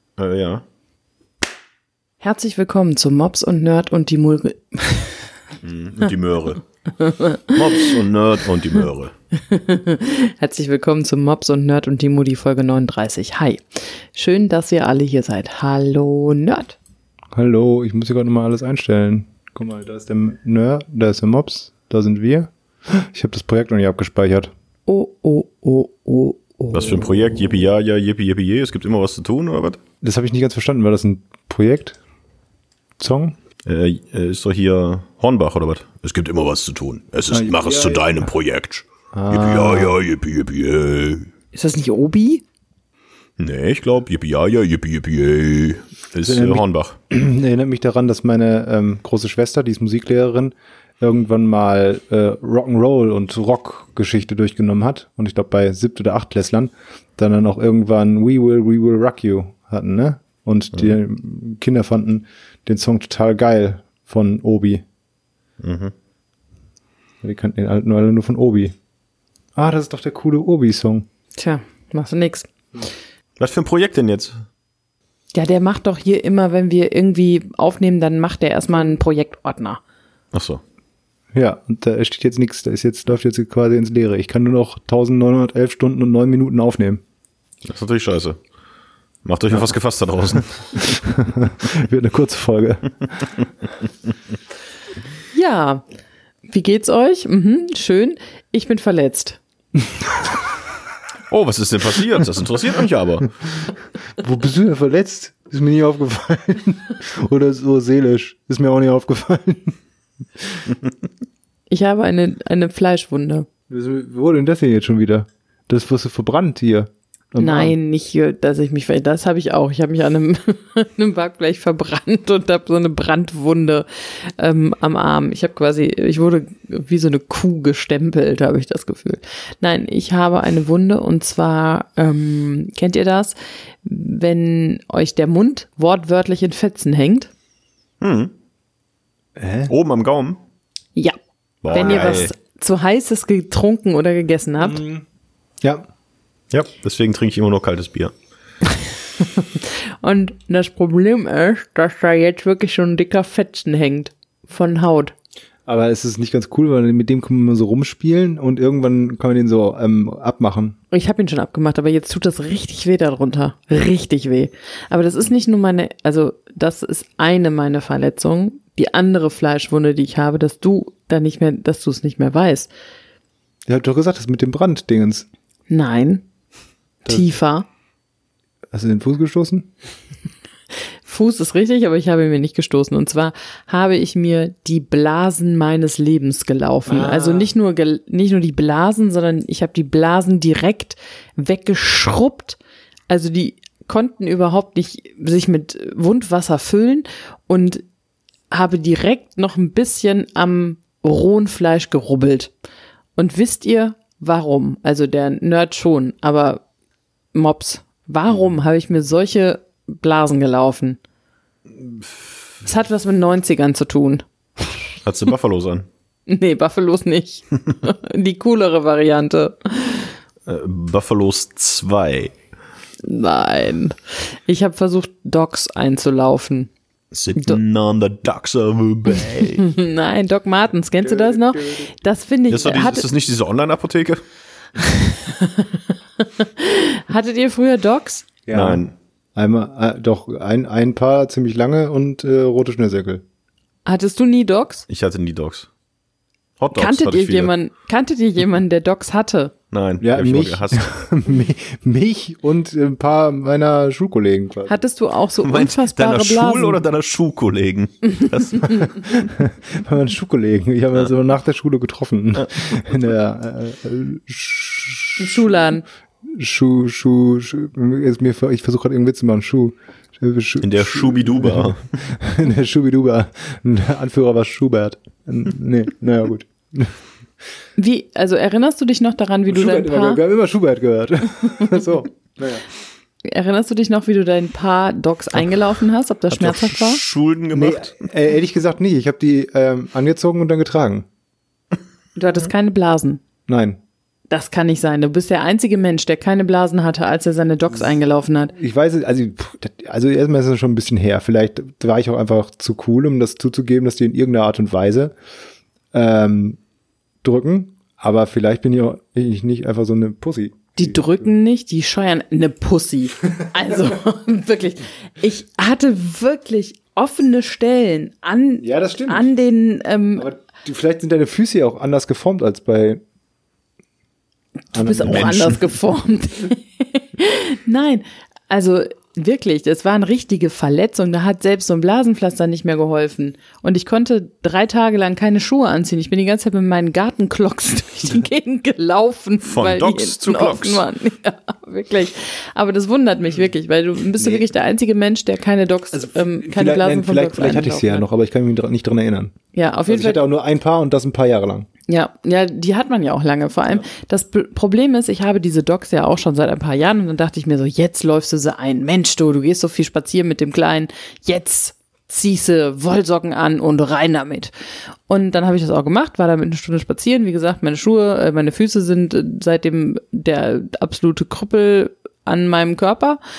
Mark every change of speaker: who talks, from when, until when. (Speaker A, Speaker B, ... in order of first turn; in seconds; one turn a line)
Speaker A: 0.2-0.6
Speaker B: 2.2-5.3
Speaker A: 5.6-6.6
Speaker B: 7.0-8.0
Speaker A: 7.5-9.1
Speaker B: 9.5-16.8
Speaker C: 17.3-24.5
Speaker B: 24.9-27.0
Speaker A: 26.7-29.8
Speaker C: 30.0-32.0
Speaker C: 33.0-33.4
Speaker A: 33.6-41.3
Speaker C: 37.3-38.2
Speaker C: 39.1-40.0
Speaker B: 41.5-42.4
Speaker A: 43.4-47.0
Speaker C: 46.3-64.8
Speaker A: 65.6-65.9
Speaker C: 67.2-68.8
Speaker C: 69.6-71.0
Speaker B: 71.4-72.5
Speaker A: 73.4-74.3
Speaker B: 75.3-79.8
Speaker A: 80.3-80.6
Speaker C: 81.3-87.0
Speaker A: 87.6-88.4
Speaker A: 89.2-91.0
Speaker C: 90.8-93.3
Speaker B: 95.3-95.8
Speaker B: 96.5-99.4
Speaker A: 101.3-103.3
Speaker C: 104.2-109.8
Speaker C: 110.4-110.7
Speaker B: 111.7-113.5
Speaker C: 113.7-117.8
Speaker B: 117.4-137.3
Speaker A: 138.0-138.3
Speaker C: 139.4-139.7
Speaker A: 139.7-140.4
Speaker A: 141.6-142.3
Speaker B: 141.7-144.8
Speaker C: 141.7-142.2
Speaker C: 144.6-145.0
Speaker C: 145.6-145.9
Speaker A: 146.5-148.1
Speaker B: 149.2-155.1
Speaker C: 155.7-160.8
Speaker B: 160.9-172.7
Speaker C: 173.7-175.3
Speaker B: 175.7-176.2
Speaker B: 177.1-177.7
Speaker C: 178.7-179.7
Speaker B: 181.0-192.6
Speaker C: 186.9-187.5
Speaker B: 193.1-197.8
Speaker B: 198.5-202.5
Speaker B: 203.2-206.6
Speaker B: 207.3-211.0
Speaker A: 211.8-212.4
Speaker B: 212.6-214.7
Speaker A: 215.1-215.9
Speaker B: 216.3-220.2
Speaker A: 220.5-222.3
Speaker B: 223.0-226.7
Speaker A: 227.1-229.7
Speaker B: 229.6-233.1
Speaker C: 231.0-231.9
Speaker A: 232.5-234.2
Speaker B: 234.8-238.3
Speaker C: 238.5-238.8
Speaker A: 238.5-238.9
Speaker C: 239.3-243.2
Speaker B: 243.9-244.9
Speaker A: 244.9-245.7
Speaker A: 246.6-247.5
Speaker B: 246.7-249.5
Speaker A: 249.7-250.9
Speaker C: 250.0-254.8
Speaker B: 254.7-256.8
Speaker A: 255.4-259.1
Speaker B: 258.6-259.0
Speaker C: 259.1-265.6
Speaker A: 262.4-262.8
Speaker B: 265.2-265.8
Speaker C: 266.2-277.0
Speaker A: 270.6-272.1
Speaker B: 277.8-280.2
Speaker C: 279.5-282.6
Speaker B: 283.2-287.0
Speaker A: 286.3-288.1
Speaker C: 287.5-291.1
Speaker B: 292.2-293.2
Speaker C: 293.5-293.8
Speaker B: 294.3-298.6
Speaker C: 298.6-305.1
Speaker C: 305.9-306.6
Speaker C: 307.2-311.2
Speaker B: 310.8-320.3
Speaker C: 318.6-319.3
Speaker C: 320.2-323.0
Speaker C: 324.7-325.6
Speaker B: 324.8-348.0
Speaker A: 325.1-325.6
Speaker A: 339.4-340.9
Speaker C: 344.2-344.5
Speaker C: 345.9-349.3
Speaker B: 349.5-350.2
Speaker C: 349.9-351.7
Speaker B: 351.9-364.5
Speaker B: 365.1-373.2